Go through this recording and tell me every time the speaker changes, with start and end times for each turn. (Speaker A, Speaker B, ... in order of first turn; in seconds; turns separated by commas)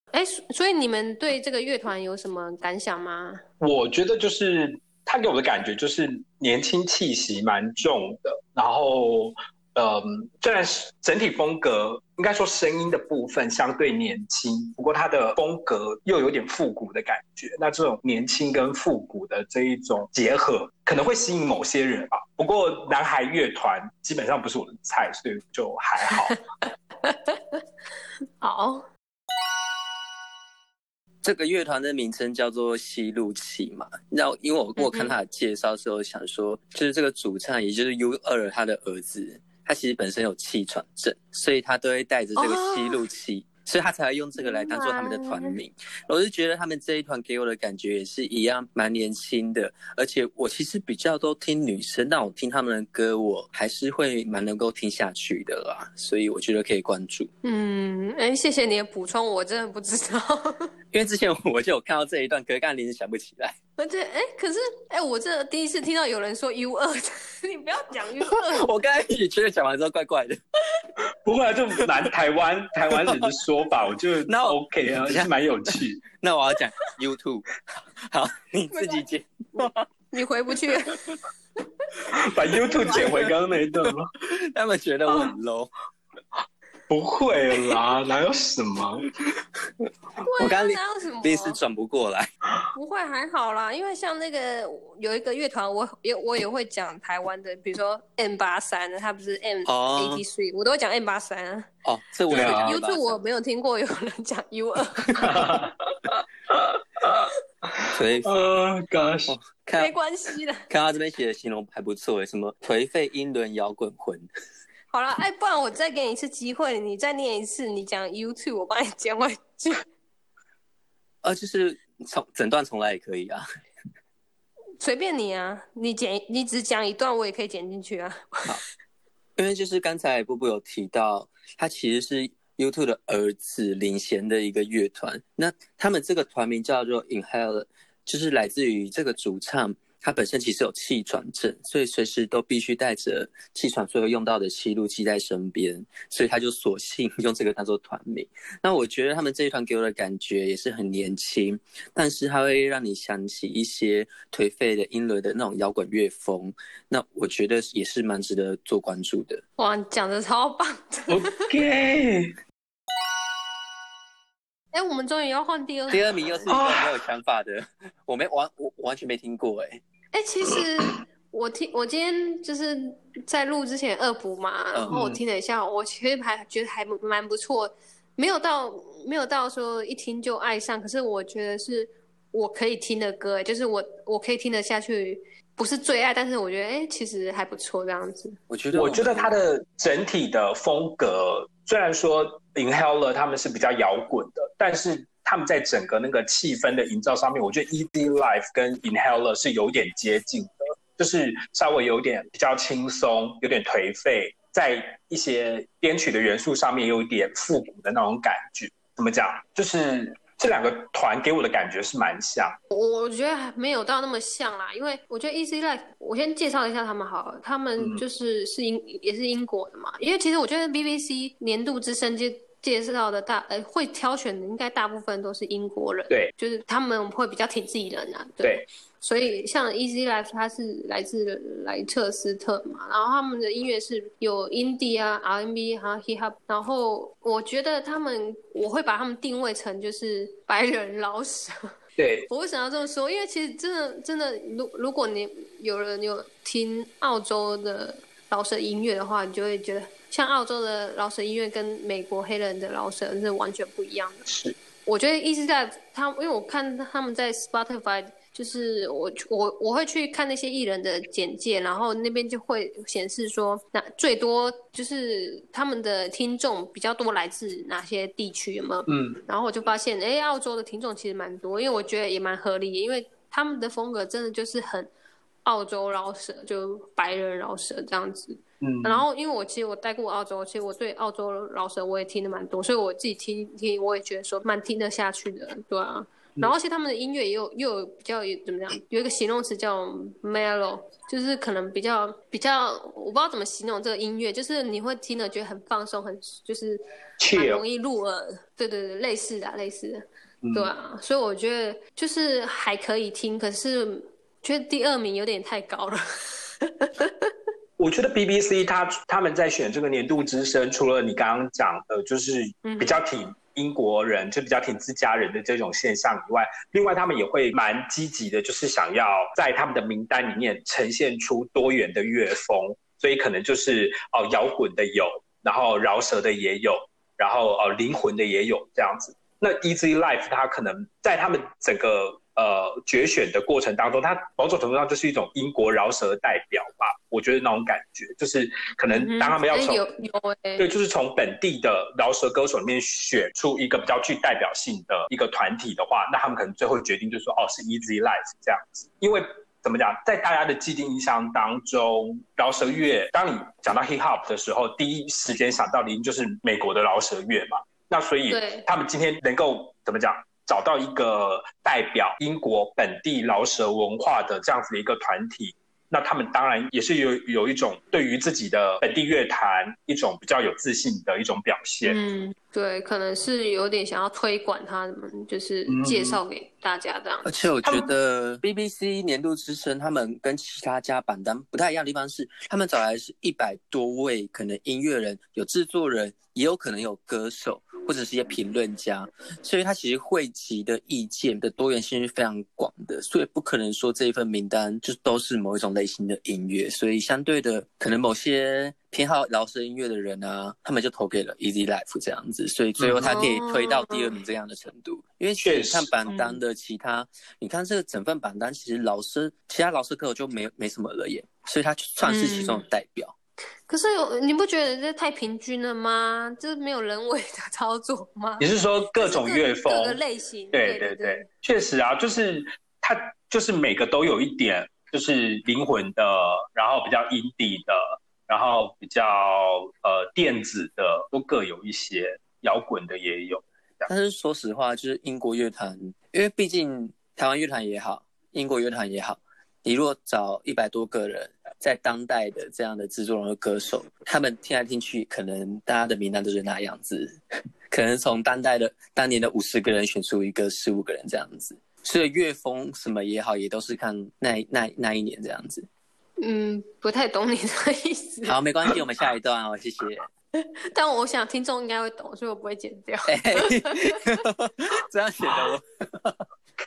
Speaker A: 0.1-3.4, Speaker B: 3.6-26.4, Speaker A: 27.0-27.6, Speaker A: 28.4-28.8, Speaker C: 31.2-57.3, Speaker A: 34.8-35.1, Speaker A: 42.4-43.1, Speaker A: 44.4-45.6, Speaker A: 57.4-60.6, Speaker C: 60.9-63.5, Speaker A: 63.8-68.7, Speaker C: 68.3-70.4, Speaker B: 71.2-76.0, Speaker C: 74.3-75.3, Speaker C: 76.2-79.9, Speaker A: 78.7-79.0, Speaker A: 79.6-81.0, Speaker B: 82.1-84.1, Speaker C: 82.8-83.3, Speaker C: 83.8-85.7, Speaker B: 85.1-85.3, Speaker B: 86.9-89.1, Speaker A: 90.2-91.6, Speaker C: 90.4-92.3, Speaker A: 92.7-101.7, Speaker C: 99.7-100.2, Speaker C: 101.8-103.2, Speaker B: 102.3-102.7, Speaker A: 102.5-105.6, Speaker B: 105.2-109.3, Speaker C: 107.9-108.3, Speaker C: 109.3-109.9, Speaker A: 109.7-110.6, Speaker C: 110.7-114.3, Speaker A: 114.9-119.8, Speaker C: 121.2-123.4, Speaker A: 124.8-128.6, Speaker C: 129.4-159.4, Speaker A: 159.6-161.3, Speaker B: 161.1-162.3, Speaker A: 164.7-166.6, Speaker C: 165.9-169.8, Speaker B: 166.5-167.0, Speaker A: 170.1-188.3, Speaker B: 174.9-175.2, Speaker C: 188.5-189.4, Speaker B: 188.7-212.6, Speaker A: 212.7-241.5, Speaker B: 217.8-218.0, Speaker B: 242.0-242.3, Speaker A: 242.3-254.2, Speaker B: 254.2-254.5, Speaker A: 254.8-274.9, Speaker B: 268.9-269.2, Speaker A: 275.4-307.3, Speaker B: 278.6-279.1, Speaker B: 297.2-297.6, Speaker B: 300.4-300.7, Speaker B: 307.8-339.8, Speaker A: 312.6-313.0, Speaker A: 338.9-340.6, Speaker B: 340.6-372.0, Speaker A: 358.3-358.7, Speaker A: 371.8-377.3, Speaker B: 375.7-376.2, Speaker C: 377.2-413.1, Speaker B: 377.6-377.9, Speaker B: 402.8-403.2, Speaker A: 403.0-404.2, Speaker B: 405.4-405.9, Speaker A: 406.1-406.4, Speaker A: 412.0-412.6, Speaker A: 413.7-421.3, Speaker B: 418.4-420.0, Speaker B: 420.5-433.9, Speaker C: 433.9-447.2, Speaker C: 447.7-455.6, Speaker A: 456.2-458.4, Speaker C: 458.2-460.1, Speaker A: 460.7-464.0, Speaker C: 463.1-466.2